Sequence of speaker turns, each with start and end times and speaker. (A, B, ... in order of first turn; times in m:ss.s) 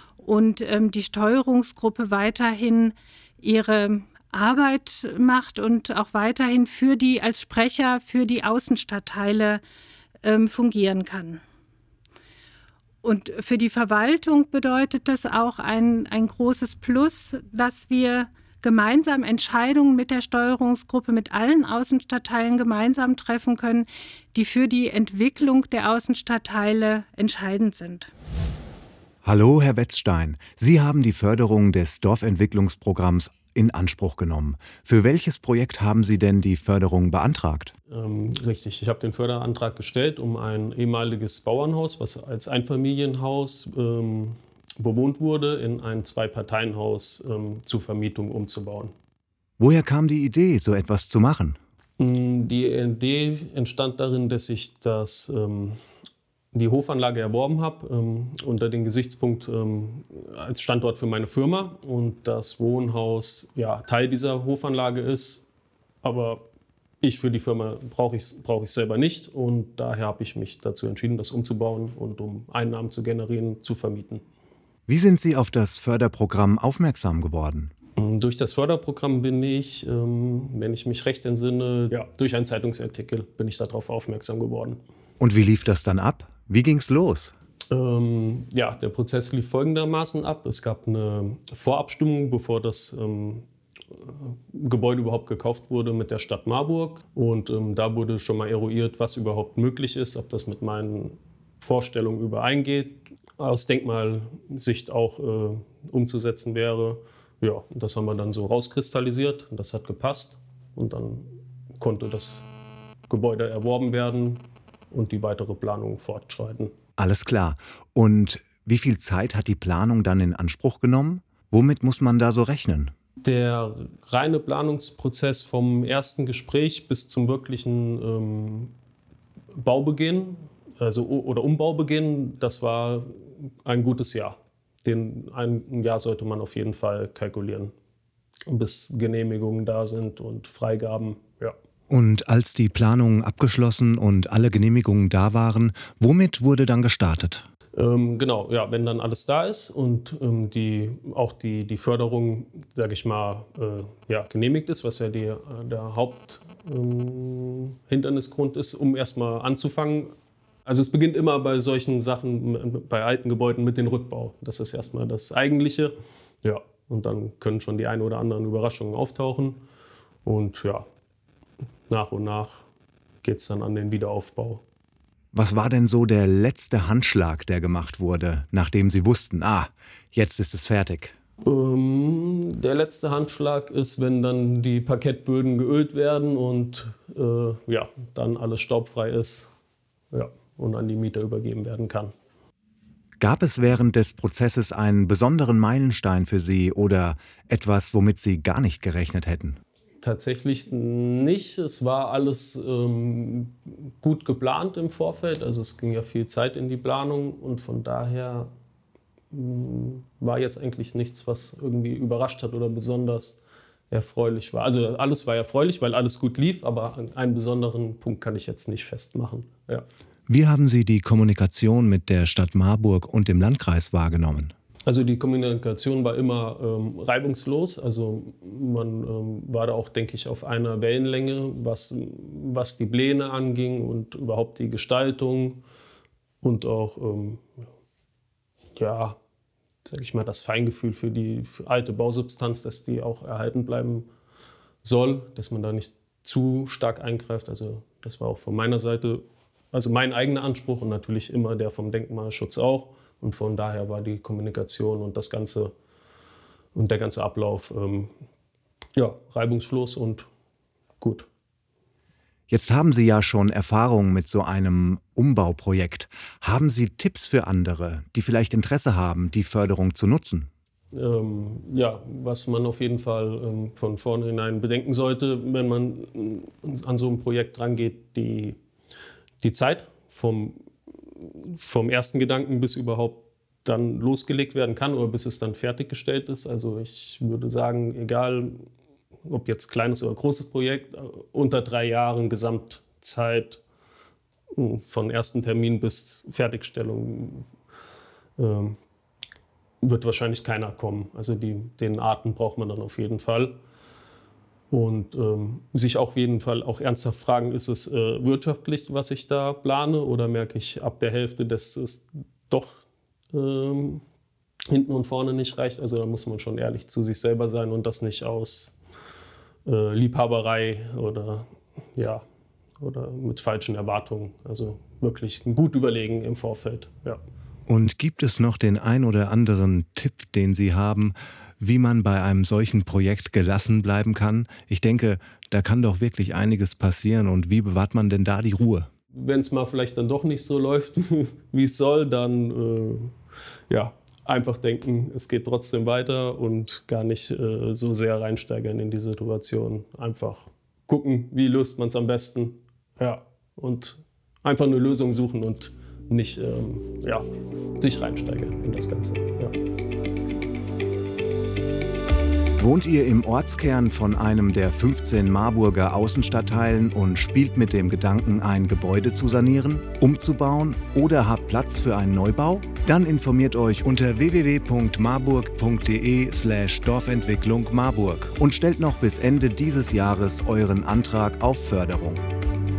0:00.2-0:09.6 A
0:10.2-0:11.4 A
0:13.0-0:28.1 A
0:29.2-0:37.7 B
0:37.9-0:48.9 C
0:49.6-0:51.6 B
0:52.0-0:55.8 C
0:56.5-1:05.4 C
1:06.0-1:06.4 C
1:07.0-1:14.2 C
1:14.9-1:17.7 B
1:18.0-1:24.8 C
1:25.2-1:27.3 B
1:27.7-1:52.4 C
1:53.1-1:56.7 C
1:57.0-2:02.9 B
2:03.2-2:08.7 C
2:09.6-2:17.7 C
2:18.5-2:21.5 C
2:21.9-2:27.4 B
2:27.7-2:40.1 C
2:40.6-2:45.9 C
2:46.4-2:49.6 C
2:50.2-2:50.8 C
2:51.9-2:52.7 C
2:53.2-2:54.6 C
2:55.3-3:01.1 B
3:01.4-3:09.5 C
3:10.1-3:12.1 C
3:13.2-3:19.6 B
3:20.0-3:28.5 C
3:29.3-3:39.8 C
3:40.3-3:44.5 B
3:44.8-3:55.6 C
3:56.4-3:57.6 C
3:58.8-3:59.2 C
3:59.8-4:04.1 C
4:04.8-4:15.7 C
4:16.7-4:18.1 C
4:19.0-4:20.3 C
4:21.0-4:21.3 C
4:22.5-4:30.5 B
4:30.9-4:38.6 C
4:39.4-4:40.6 C
4:41.2-4:48.6 C
4:49.2-4:53.6 C
4:54.5-4:57.5 C
4:58.4-4:58.8 C
4:59.8-5:03.6 C
5:04.7-5:12.8 C
5:13.3-5:14.0 C
5:14.7-5:18.8 C
5:19.6-5:22.2 C
5:22.8-5:27.2 C
5:27.7-5:38.9 B
5:39.1-5:43.1 C
5:43.7-5:57.2 C
5:57.8-5:59.5 C
6:02.6-6:22.2 B